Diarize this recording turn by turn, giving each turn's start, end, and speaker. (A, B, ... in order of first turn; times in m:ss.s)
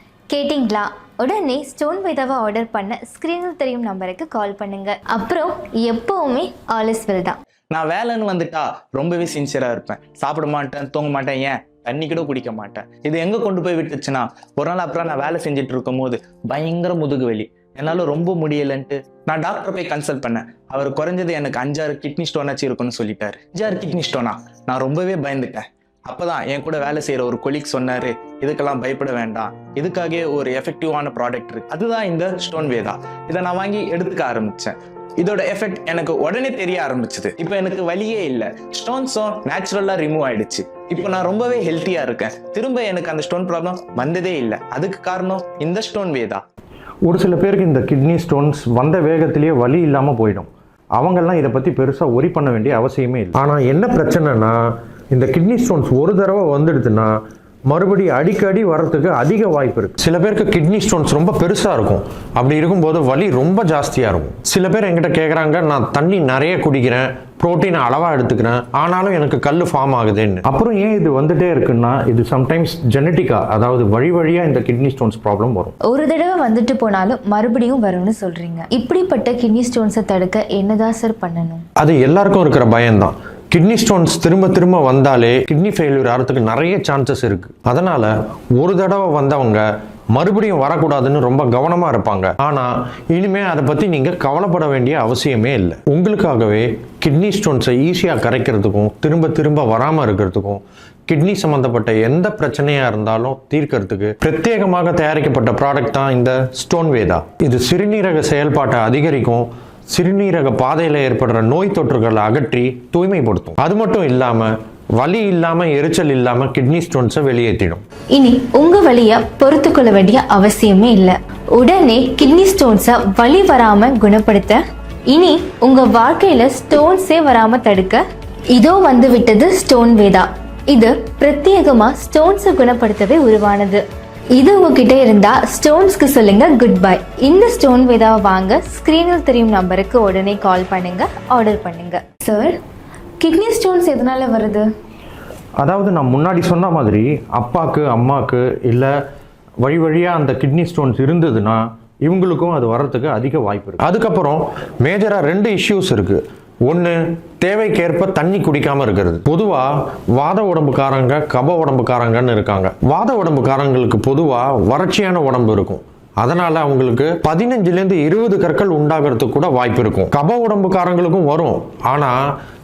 0:00.3-0:07.4 A
0:07.7-0:46.4 B
0:47.0-0:54.6 C
0:55.1-0:57.1 C
0:57.7-1:15.7 C
1:15.8-1:21.6 A
1:21.8-1:57.8 C
1:58.1-2:08.0 A
2:08.5-2:13.8 A
2:14.3-2:22.6 A
2:23.2-2:24.6 A
2:25.6-2:28.9 C
2:29.6-2:52.2 C